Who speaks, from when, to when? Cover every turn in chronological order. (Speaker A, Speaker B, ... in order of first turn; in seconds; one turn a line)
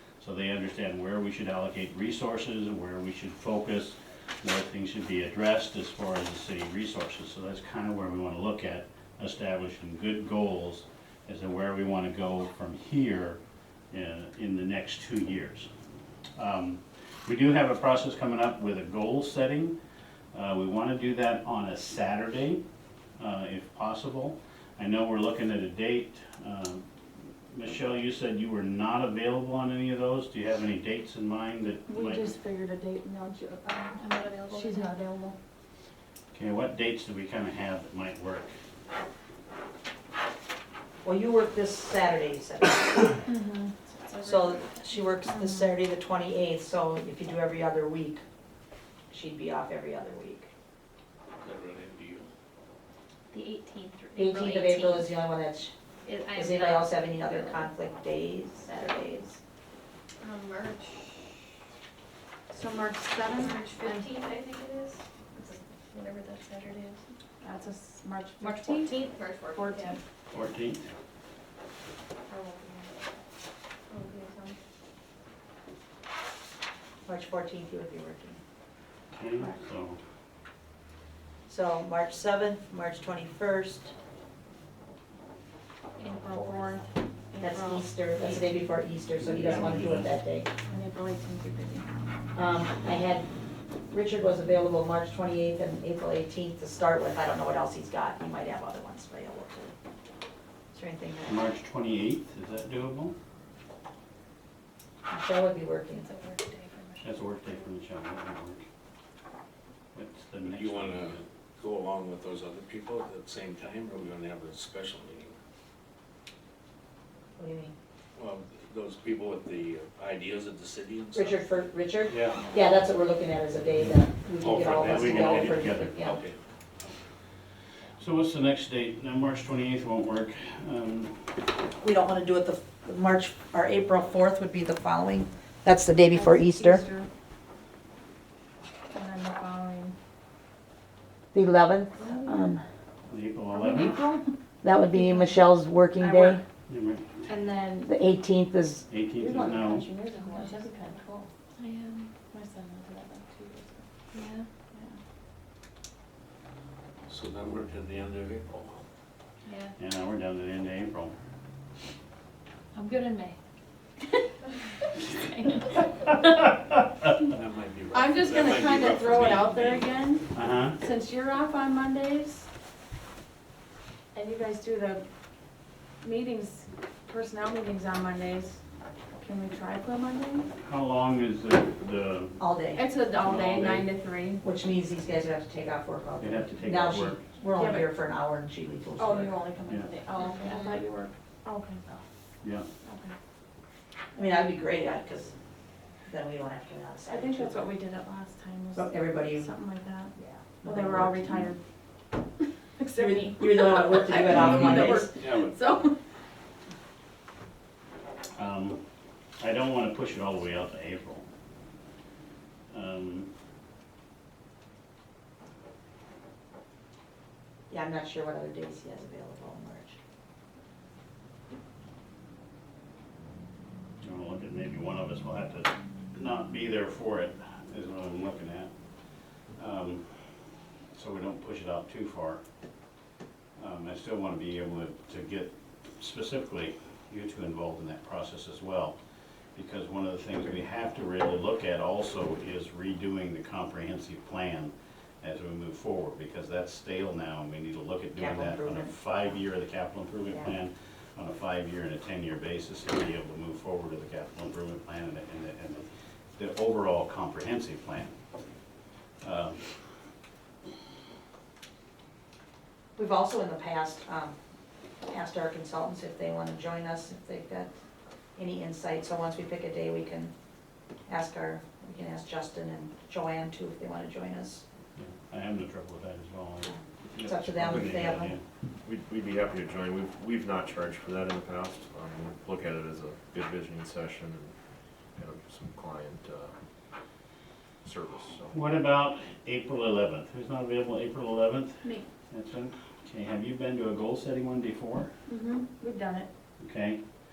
Speaker A: 0.2-13.4
Speaker A: 13.9-15.7
Speaker A: 16.4-19.8
Speaker A: 20.3-22.6
Speaker A: 23.2-26.8
Speaker A: 27.5-32.3
Speaker B: 31.9-35.3
Speaker C: 34.0-34.9
Speaker A: 36.3-38.5
Speaker D: 41.0-43.2
Speaker B: 43.2-43.7
Speaker C: 43.9-45.1
Speaker D: 44.2-48.2
Speaker B: 45.2-45.7
Speaker D: 49.1-50.5
Speaker E: 51.4-52.3
Speaker C: 53.3-55.1
Speaker D: 54.1-55.7
Speaker C: 56.0-57.7
Speaker D: 56.3-59.4
Speaker F: 60.2-61.0
Speaker B: 62.5-64.1
Speaker C: 63.4-67.0
Speaker F: 63.4-65.0
Speaker B: 67.4-69.0
Speaker F: 68.4-70.0
Speaker B: 69.5-70.0
Speaker A: 70.3-70.8
Speaker B: 72.3-72.9
Speaker D: 77.0-78.4
Speaker A: 79.1-80.0
Speaker D: 81.5-83.9
Speaker B: 86.0-88.0
Speaker D: 87.4-90.5
Speaker A: 89.2-90.1
Speaker B: 90.7-91.9
Speaker D: 92.3-93.3
Speaker D: 93.9-99.7
Speaker D: 100.7-101.5
Speaker A: 101.2-103.2
Speaker D: 105.1-106.1
Speaker C: 105.9-107.1
Speaker A: 107.0-108.6
Speaker A: 109.9-111.2
Speaker E: 110.4-115.3
Speaker D: 117.4-117.7
Speaker E: 118.2-121.5
Speaker D: 121.1-126.2
Speaker A: 122.1-122.4
Speaker E: 124.4-126.9
Speaker A: 124.6-126.0
Speaker A: 128.0-131.3
Speaker D: 131.8-136.8
Speaker B: 136.1-137.1
Speaker B: 138.9-139.9
Speaker D: 141.3-142.6
Speaker B: 141.9-142.5
Speaker A: 143.1-144.0
Speaker B: 143.5-144.3
Speaker D: 144.6-146.4
Speaker B: 144.9-145.4
Speaker B: 146.0-146.4
Speaker A: 146.7-147.3
Speaker B: 147.3-147.9
Speaker D: 147.8-149.8
Speaker A: 148.9-149.8
Speaker B: 149.2-151.3
Speaker C: 151.6-152.1
Speaker B: 152.3-153.8
Speaker C: 154.1-154.5
Speaker B: 154.7-155.0
Speaker E: 157.1-158.8
Speaker C: 159.4-159.7
Speaker A: 159.8-161.1
Speaker C: 162.8-163.3
Speaker C: 165.2-165.9
Speaker E: 167.2-170.0
Speaker B: 167.9-172.5
Speaker A: 170.3-170.8
Speaker B: 174.1-175.1
Speaker B: 176.0-178.6
Speaker B: 179.2-180.5
Speaker A: 180.6-182.4
Speaker D: 182.4-182.8
Speaker B: 182.8-184.4
Speaker A: 183.2-183.9
Speaker D: 184.4-189.4
Speaker A: 186.2-187.2
Speaker B: 187.5-187.9
Speaker B: 189.0-192.0
Speaker F: 190.2-190.7
Speaker B: 192.8-193.1
Speaker D: 194.1-195.3
Speaker D: 196.1-197.7
Speaker B: 197.1-201.6
Speaker D: 198.7-199.5
Speaker D: 200.2-201.4
Speaker B: 202.8-206.0
Speaker D: 202.9-205.1
Speaker C: 204.0-204.4
Speaker E: 205.2-205.5
Speaker A: 208.3-208.8
Speaker A: 209.4-211.2
Speaker A: 212.7-213.3
Speaker D: 217.7-220.0
Speaker A: 224.0-228.7
Speaker A: 229.5-230.3
Speaker A: 230.9-232.4
Speaker A: 233.6-238.9
Speaker A: 239.5-258.1
Speaker D: 248.2-248.9
Speaker A: 259.2-259.8
Speaker D: 262.9-264.4
Speaker D: 265.1-267.7
Speaker D: 268.4-270.3
Speaker D: 271.1-274.6
Speaker A: 274.9-278.4
Speaker D: 276.7-278.3
Speaker G: 277.7-278.1
Speaker G: 278.8-286.5
Speaker G: 287.8-288.6
Speaker A: 288.5-295.1
Speaker B: 295.3-296.3
Speaker A: 296.6-297.0